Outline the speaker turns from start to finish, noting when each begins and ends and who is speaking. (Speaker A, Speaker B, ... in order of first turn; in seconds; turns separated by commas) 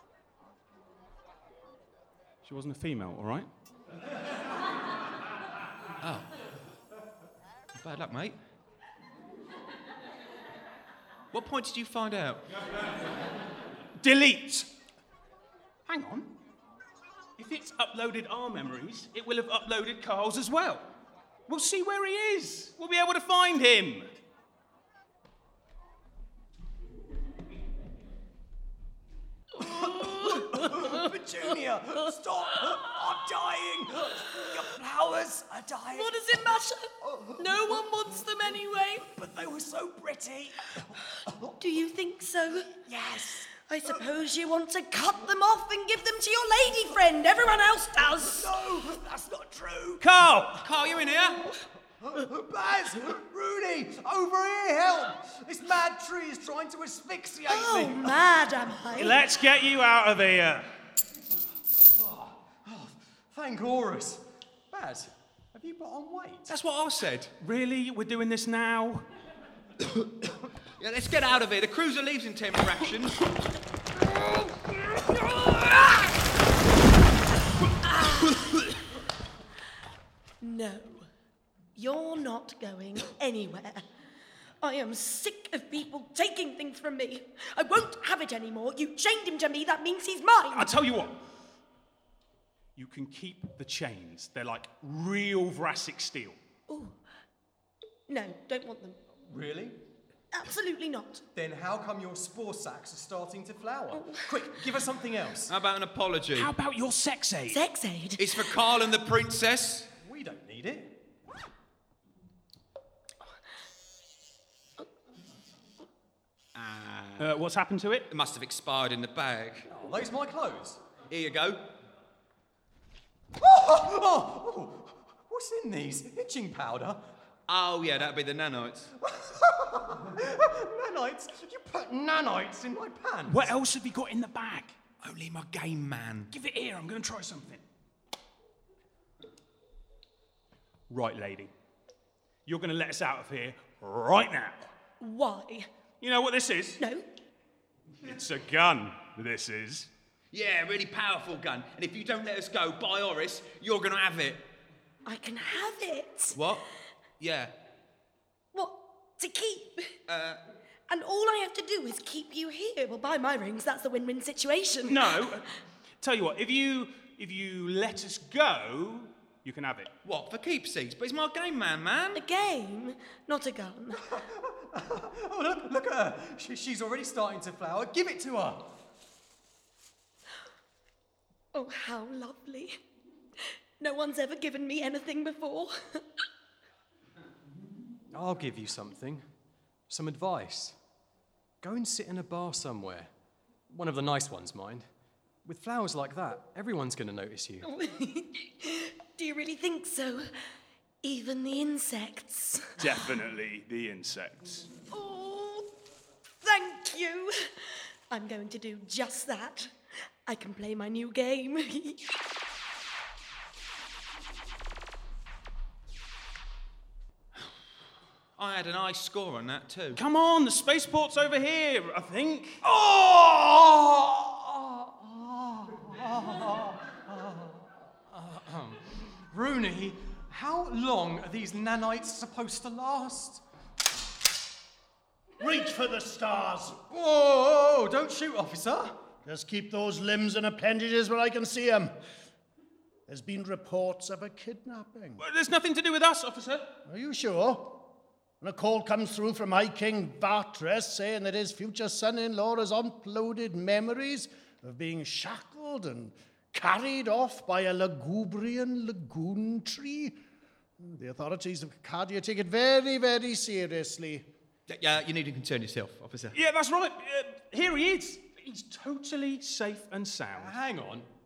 Speaker A: 2.4-3.5, Speaker B: 6.0-6.3, Speaker B: 7.8-8.4, Speaker B: 11.3-12.5, Speaker A: 14.0-14.7, Speaker A: 15.9-16.3, Speaker A: 17.4-20.9, Speaker A: 21.5-24.1, Speaker C: 29.6-37.8, Speaker D: 29.7-30.8, Speaker D: 35.9-39.1, Speaker C: 39.0-41.6, Speaker D: 41.6-42.7, Speaker C: 42.7-44.0, Speaker D: 43.6-48.6, Speaker C: 48.0-50.5, Speaker A: 50.0-50.6, Speaker B: 50.6-51.5, Speaker C: 51.5-58.3, Speaker D: 57.5-59.2, Speaker A: 59.0-60.7, Speaker C: 61.8-66.5, Speaker B: 66.5-67.3, Speaker A: 67.4-69.1, Speaker B: 70.8-73.2, Speaker D: 80.4-81.1, Speaker D: 81.8-83.8, Speaker D: 84.6-90.7, Speaker A: 90.5-91.2, Speaker A: 92.8-96.4, Speaker D: 96.7-97.0, Speaker D: 98.1-99.0, Speaker C: 99.2-99.8, Speaker D: 100.3-101.2, Speaker C: 101.3-105.5, Speaker D: 103.9-104.6, Speaker B: 105.5-106.5, Speaker A: 106.3-107.6, Speaker D: 107.5-108.6, Speaker B: 108.2-109.9, Speaker C: 109.9-111.0, Speaker B: 116.5-117.3, Speaker A: 117.2-118.1, Speaker B: 118.1-119.7, Speaker C: 119.7-120.8, Speaker B: 121.1-121.7, Speaker C: 123.4-127.1, Speaker B: 127.5-128.9, Speaker C: 129.0-133.5, Speaker A: 133.3-134.8, Speaker B: 135.0-136.3, Speaker A: 136.3-137.6, Speaker A: 140.9-141.5, Speaker A: 142.5-144.7, Speaker D: 145.0-145.7, Speaker A: 146.0-146.8, Speaker D: 146.8-147.1, Speaker A: 148.0-149.9, Speaker B: 150.3-154.5, Speaker D: 155.1-156.4, Speaker B: 156.3-156.7, Speaker B: 157.2-157.5, Speaker D: 158.5-160.0, Speaker B: 160.1-160.4, Speaker D: 160.9-165.3, Speaker A: 164.9-165.5, Speaker A: 166.0-169.9, Speaker B: 170.0-172.2, Speaker D: 172.2-174.1, Speaker C: 174.0-178.8, Speaker D: 181.5-182.8, Speaker D: 183.8-186.1, Speaker C: 188.1-189.2, Speaker C: 189.9-190.8, Speaker C: 191.6-193.1, Speaker C: 193.7-194.8, Speaker C: 195.4-197.7, Speaker D: 197.6-200.3, Speaker D: 201.0-202.8, Speaker A: 202.8-204.7, Speaker D: 204.9-205.7, Speaker D: 206.4-209.7, Speaker D: 210.3-212.1, Speaker B: 218.4-220.0, Speaker A: 220.0-222.6, Speaker C: 222.6-233.4, Speaker E: 235.4-236.8, Speaker C: 236.9-239.0, Speaker E: 239.2-241.9, Speaker E: 243.1-245.2, Speaker A: 245.2-246.7, Speaker E: 246.9-247.9, Speaker E: 248.4-260.2, Speaker E: 260.8-264.3, Speaker B: 264.7-266.4, Speaker A: 266.4-270.6, Speaker C: 270.3-271.1